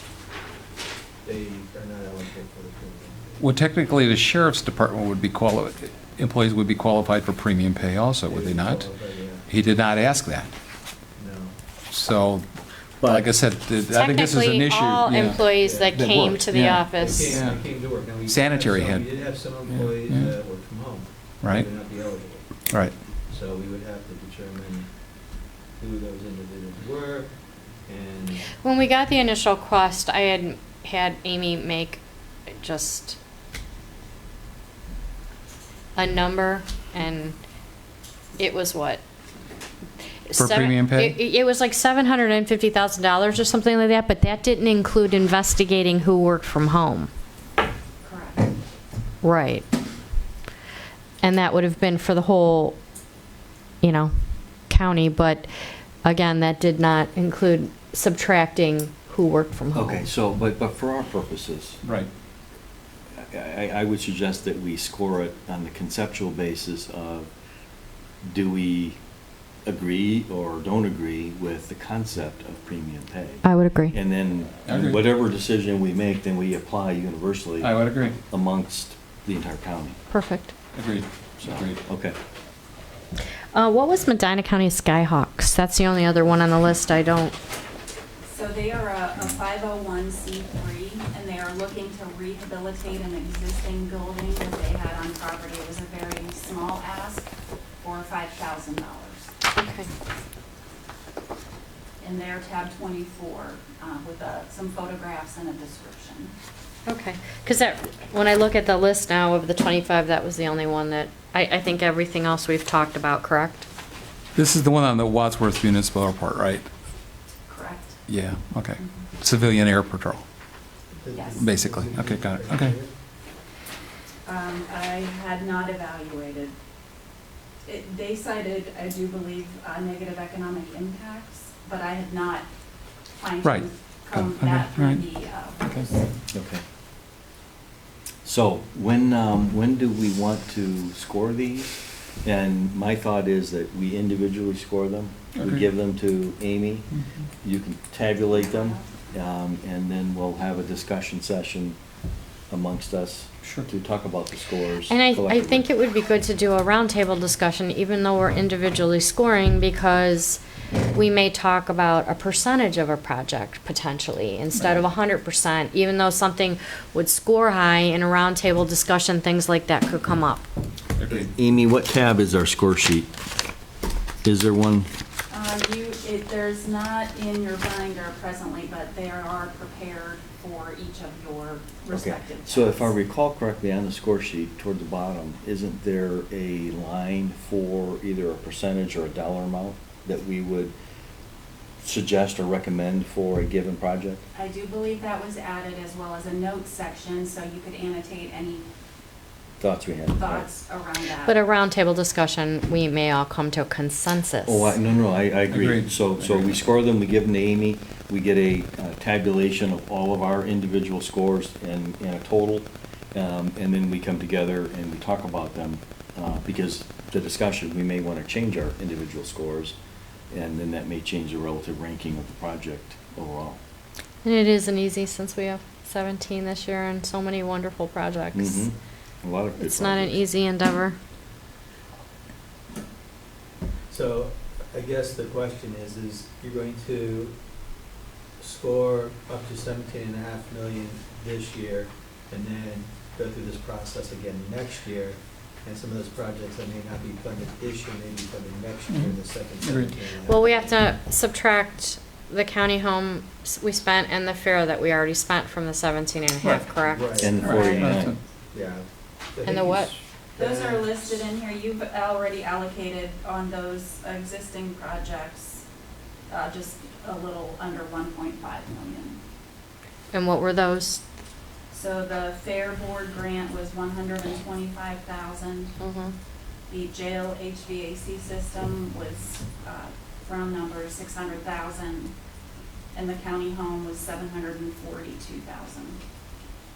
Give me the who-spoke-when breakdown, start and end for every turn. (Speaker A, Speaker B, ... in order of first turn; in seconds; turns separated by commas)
Speaker A: 1.2-3.5, Speaker B: 3.4-8.9, Speaker A: 8.3-9.4, Speaker B: 9.5-10.5, Speaker A: 11.2-11.6, Speaker B: 11.9-12.5, Speaker B: 13.0-17.6, Speaker C: 13.9-17.3, Speaker A: 15.5-16.0, Speaker A: 16.9-22.5, Speaker B: 18.2-19.1, Speaker B: 19.7-20.3, Speaker B: 21.4-21.7, Speaker A: 23.3-24.9, Speaker A: 25.8-27.3, Speaker A: 27.9-28.5, Speaker C: 28.6-32.0, Speaker C: 32.5-33.2, Speaker C: 36.0-37.4, Speaker C: 38.4-39.0, Speaker C: 40.3-47.1, Speaker B: 40.3-41.2, Speaker D: 48.0-48.5, Speaker C: 49.2-49.7, Speaker C: 51.2-52.8, Speaker C: 53.8-54.1, Speaker C: 54.7-55.5, Speaker C: 56.0-60.0, Speaker E: 59.7-61.8, Speaker B: 61.8-62.1, Speaker E: 63.1-67.3, Speaker E: 68.2-69.0, Speaker E: 69.6-80.0, Speaker C: 73.4-74.0, Speaker B: 74.7-75.1, Speaker B: 77.6-78.2, Speaker C: 80.1-80.5, Speaker B: 80.7-81.8, Speaker E: 81.4-82.2, Speaker C: 83.5-87.3, Speaker D: 88.2-97.3, Speaker D: 97.8-99.3, Speaker C: 99.5-99.9, Speaker D: 102.0-106.3, Speaker C: 106.8-113.7, Speaker B: 114.3-116.7, Speaker D: 117.5-118.0, Speaker B: 118.1-120.2, Speaker D: 118.8-119.1, Speaker A: 120.9-122.9, Speaker D: 121.1-121.4, Speaker B: 121.4-122.8, Speaker D: 124.2-126.5, Speaker D: 127.6-132.5, Speaker D: 133.2-136.1, Speaker B: 133.4-135.9, Speaker E: 136.3-136.6, Speaker E: 138.2-146.9, Speaker B: 145.4-145.6, Speaker E: 147.4-151.8, Speaker D: 148.3-148.9, Speaker E: 152.5-155.7, Speaker C: 154.9-170.4, Speaker B: 171.0-171.3, Speaker E: 171.1-173.1, Speaker E: 174.2-174.9, Speaker D: 175.3-182.9, Speaker E: 181.9-190.7, Speaker E: 191.8-194.2, Speaker D: 194.3-198.7, Speaker E: 199.6-200.4, Speaker D: 200.1-201.4, Speaker C: 201.2-204.7, Speaker E: 204.4-219.8, Speaker B: 205.5-206.5, Speaker E: 220.3-223.6, Speaker C: 224.2-228.7, Speaker E: 228.3-230.2, Speaker C: 229.6-231.0, Speaker A: 233.9-237.3, Speaker A: 238.4-250.8, Speaker B: 248.9-249.9, Speaker C: 250.2-258.0, Speaker A: 256.7-261.2, Speaker E: 257.2-258.1, Speaker B: 257.4-258.1, Speaker C: 259.4-259.9, Speaker D: 260.4-265.6, Speaker D: 266.3-269.2, Speaker C: 270.1-271.0, Speaker D: 271.7-275.7, Speaker C: 275.8-276.1, Speaker D: 276.7-282.1, Speaker D: 282.9-286.0